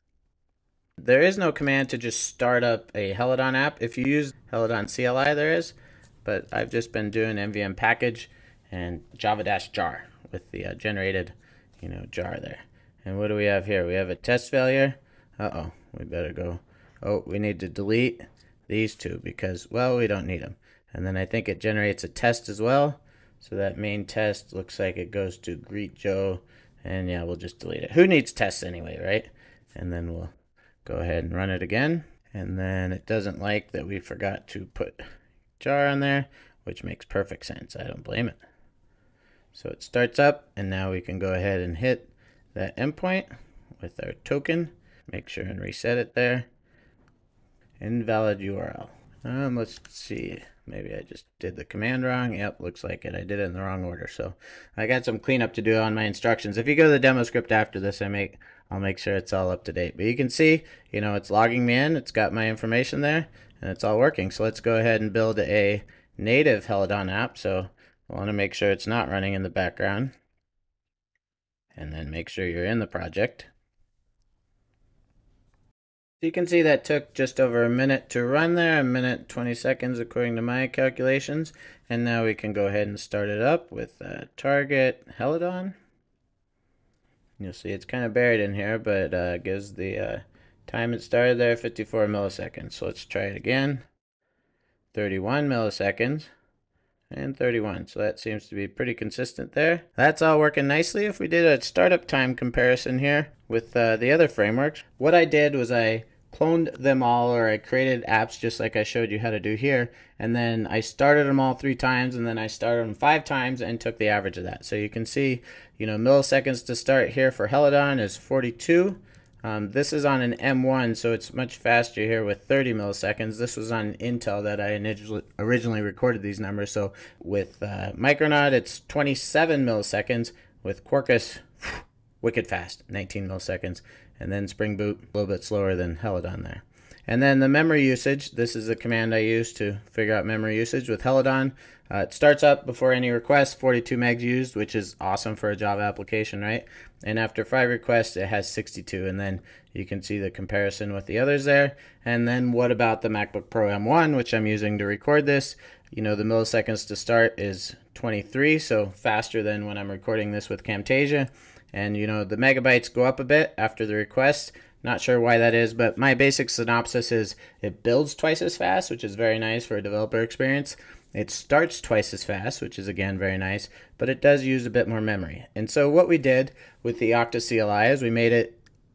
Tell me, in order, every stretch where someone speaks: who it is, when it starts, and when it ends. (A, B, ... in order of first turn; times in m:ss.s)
0:01.0-0:30.3 A
0:30.8-0:35.0 A
0:35.6-0:38.4 A
0:39.5-0:43.3 A
0:43.8-0:46.5 A
0:47.8-1:10.1 A
1:11.7-1:13.5 A
1:16.2-1:25.8 A
1:27.4-1:33.8 A
1:34.9-1:36.3 A
1:37.1-2:58.6 A